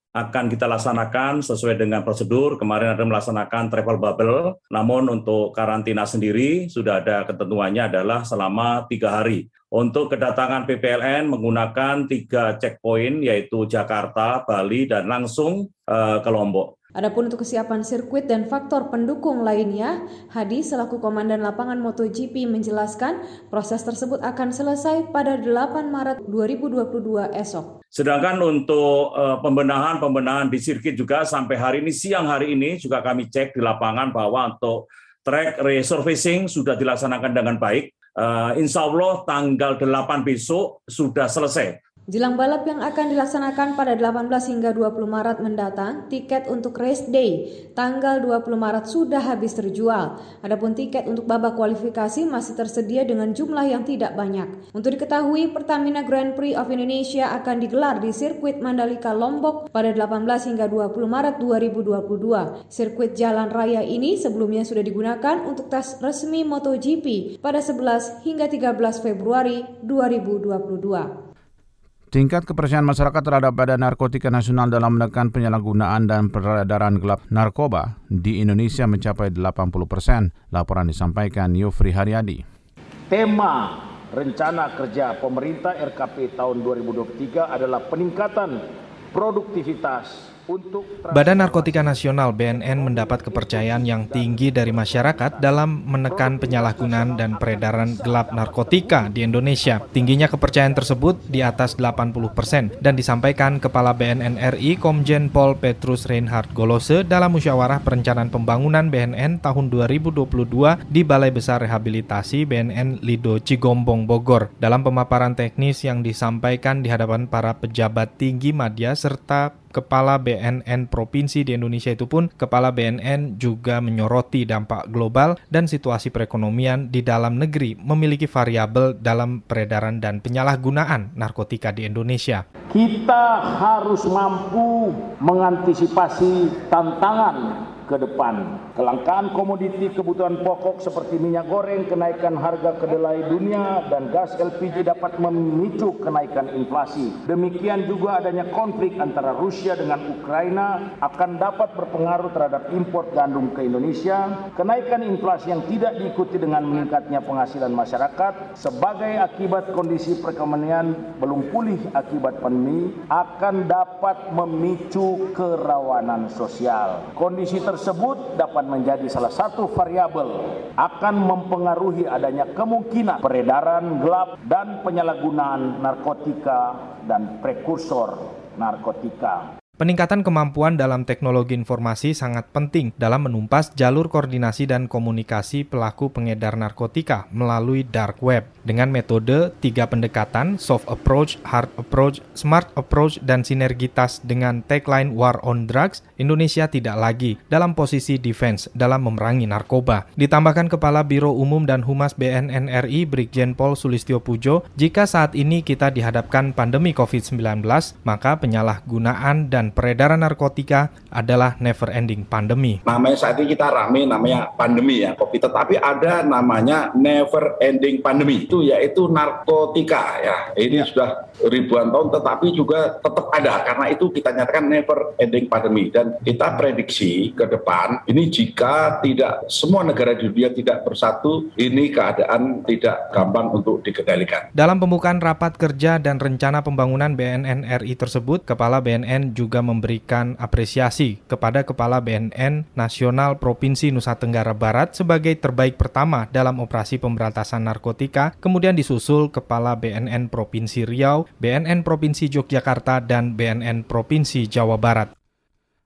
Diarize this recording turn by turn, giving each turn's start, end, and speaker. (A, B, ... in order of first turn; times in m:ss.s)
0:00.2-0:16.7 A
0:17.0-0:27.7 B
0:27.9-0:41.8 A
0:42.1-1:11.1 B
1:12.1-1:22.4 C
1:23.1-1:28.6 D
1:29.1-1:31.9 D
1:31.1-2:12.4 E
1:32.5-1:35.5 D
1:36.0-1:42.9 D
2:12.7-2:59.5 D
2:59.8-3:32.8 E
3:32.9-3:54.5 F
3:54.6-4:15.1 E